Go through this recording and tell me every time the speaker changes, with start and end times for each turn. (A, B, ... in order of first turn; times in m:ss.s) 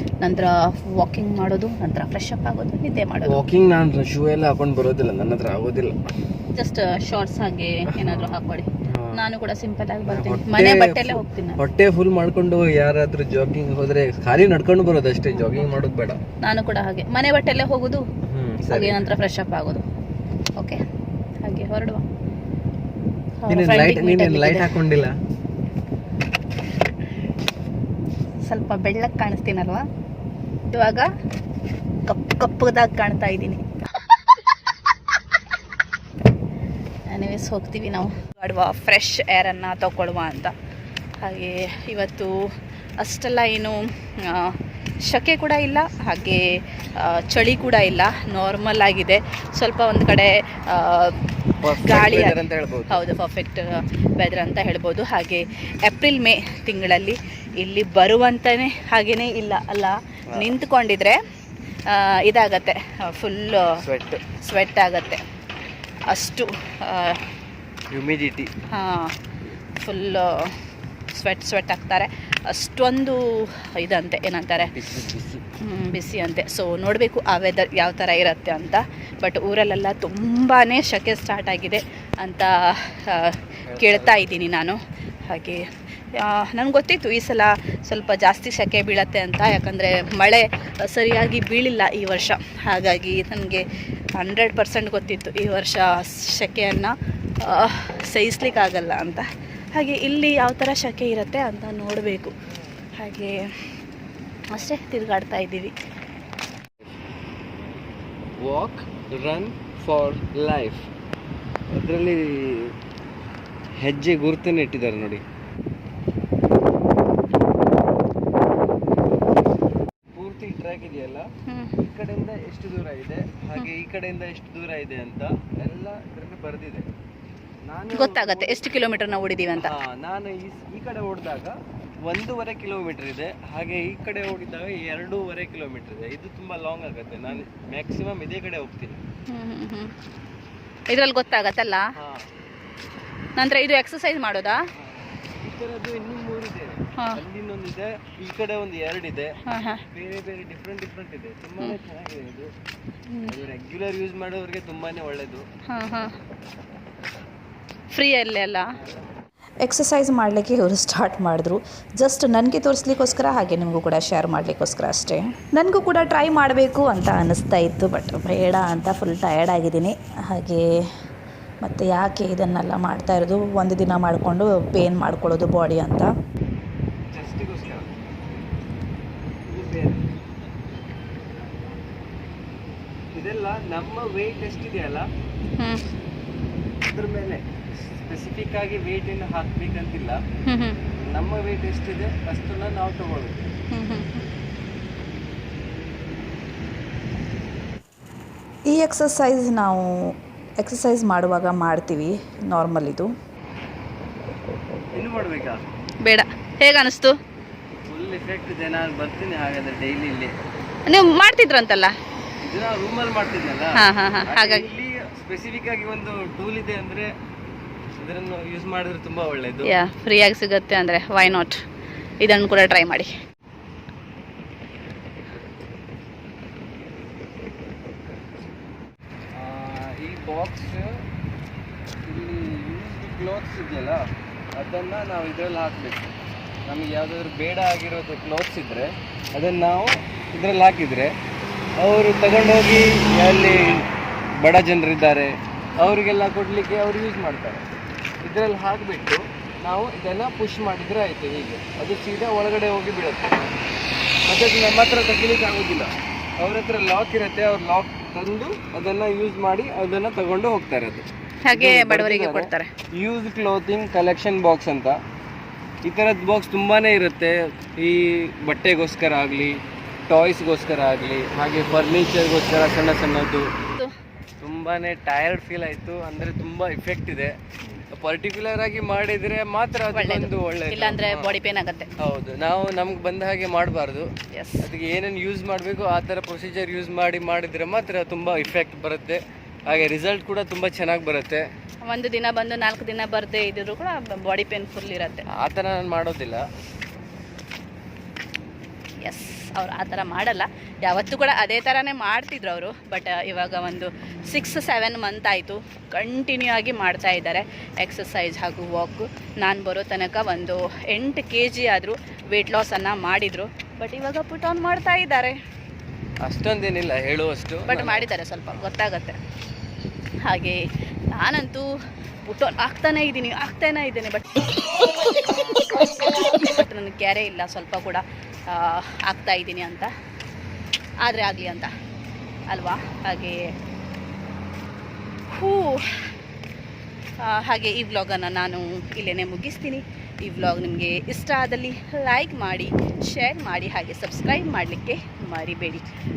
0:00.2-0:03.4 A
0:03.2-0:06.0 B
0:06.5-0:11.6 A
0:07.9-0:09.2 B
0:10.0-0:16.2 B
0:16.4-0:18.0 A
0:18.2-0:19.0 B
0:18.7-0:19.8 A
0:21.4-0:22.0 A
0:23.4-0:24.7 A
0:23.5-0:25.2 B
0:28.4-0:29.8 A
0:30.7-0:31.1 A
0:32.0-0:34.2 A
0:37.1-0:40.5 A
0:41.2-0:42.4 A
0:43.0-0:51.2 A
0:51.6-0:53.0 B
0:51.7-1:01.2 A
1:01.9-1:03.7 A
1:03.8-1:04.2 B
1:04.4-1:05.2 A
1:06.1-1:07.2 A
1:07.9-1:08.5 B
1:08.7-1:09.1 A
1:09.8-1:10.3 A
1:11.1-1:14.7 A
1:14.6-1:15.4 B
1:15.6-1:33.6 A
1:23.6-1:24.4 B
1:34.2-1:36.9 A
1:37.4-1:42.3 A
1:43.0-1:43.4 A
1:44.5-1:45.7 A
1:48.4-1:50.9 B
1:51.7-1:52.7 B
1:53.8-1:55.2 B
2:00.1-2:06.9 B
2:01.5-2:01.7 A
2:07.7-2:08.6 B
2:07.9-2:09.7 A
2:09.6-2:11.5 B
2:12.1-2:19.0 B
2:19.3-2:19.9 A
2:20.9-2:21.8 A
2:22.0-2:22.3 B
2:23.4-2:24.6 A
2:24.8-2:29.3 B
2:29.4-2:29.8 A
2:29.9-2:32.5 B
2:33.3-2:35.4 B
2:35.7-2:36.1 A
2:37.9-2:38.7 A
2:39.6-2:50.7 C
2:51.6-2:56.1 C
2:57.1-2:57.9 B
2:59.5-3:00.0 B
3:03.1-3:05.1 B
3:06.9-3:10.2 B
3:10.4-3:10.8 A
3:11.0-3:13.5 B
3:13.7-3:14.2 A
3:18.7-3:23.1 C
3:24.9-3:25.6 B
3:26.0-3:27.1 A
3:27.9-3:30.3 B
3:30.8-3:31.9 A
3:32.4-3:37.1 B
3:33.8-3:34.7 A
3:38.0-3:39.7 B
3:39.6-3:41.6 A
3:42.2-3:43.1 A
3:49.3-3:51.0 B
3:52.0-3:56.1 B
3:56.6-4:01.1 B
4:01.8-4:03.8 B
4:04.4-4:07.6 B
4:08.2-4:13.4 B
4:14.3-4:25.0 B
4:21.4-4:22.7 A
4:25.8-4:33.5 B
4:34.4-4:37.4 B
4:37.9-4:41.3 B
4:39.9-4:41.9 A
4:42.0-4:44.1 B
4:44.3-4:44.7 A
4:44.6-4:51.4 B
4:51.8-4:55.2 A
4:55.3-4:56.4 B
4:59.0-5:15.4 A
5:16.2-5:18.6 B
5:17.6-5:19.2 A
5:20.2-5:21.7 A
5:22.2-5:24.4 A
5:25.6-5:29.9 A
5:31.0-5:31.7 A
5:32.5-5:33.4 A
5:35.3-5:36.1 A
5:37.2-5:45.9 A